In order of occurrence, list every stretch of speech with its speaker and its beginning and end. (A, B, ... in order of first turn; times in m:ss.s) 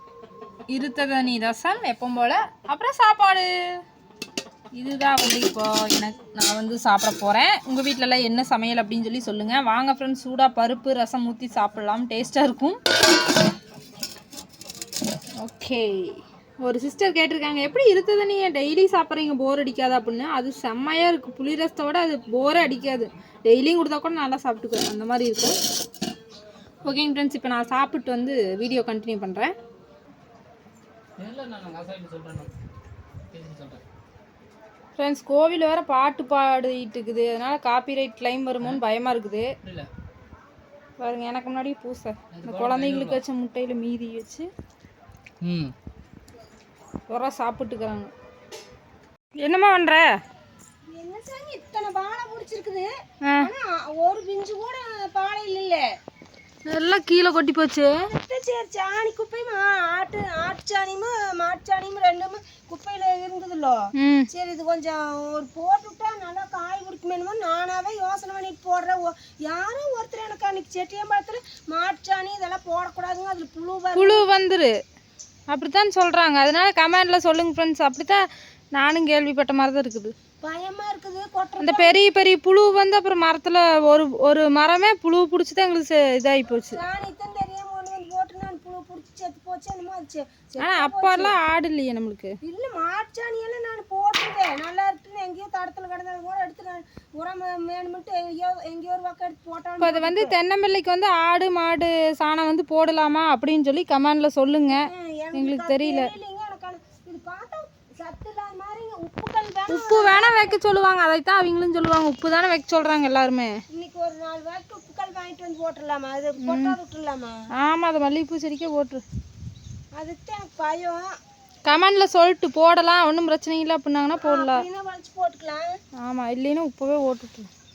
0:00.7-0:03.5 A
0:04.8-0:12.8 A
0:15.4-0:25.6 A
0:26.8-0:29.5 A
0:31.2-0:32.6 B
0:33.3-0:33.8 B
0:35.0-0:39.5 A
0:39.6-0:39.9 B
0:41.0-0:44.5 A
0:42.3-0:43.2 B
0:45.4-0:45.7 B
0:47.1-0:48.1 A
0:49.4-0:50.1 A
0:50.9-0:52.9 C
0:53.2-0:53.5 A
0:53.4-0:55.8 C
0:56.7-0:58.1 A
0:58.0-1:03.8 C
1:04.0-1:04.3 A
1:04.3-1:14.2 C
1:14.0-1:14.7 A
1:15.5-1:20.1 A
1:20.4-1:22.0 C
1:21.6-1:26.8 A
1:26.7-1:31.3 C
1:30.6-1:32.3 A
1:32.4-1:40.3 C
1:39.8-1:46.1 A
1:44.7-1:50.6 C
1:49.7-1:53.6 A
1:53.7-1:57.4 C
1:56.4-1:56.8 A
1:57.6-1:59.0 A
2:00.0-2:01.1 C
2:01.6-2:04.6 A
2:04.2-2:05.7 C
2:06.0-2:07.5 A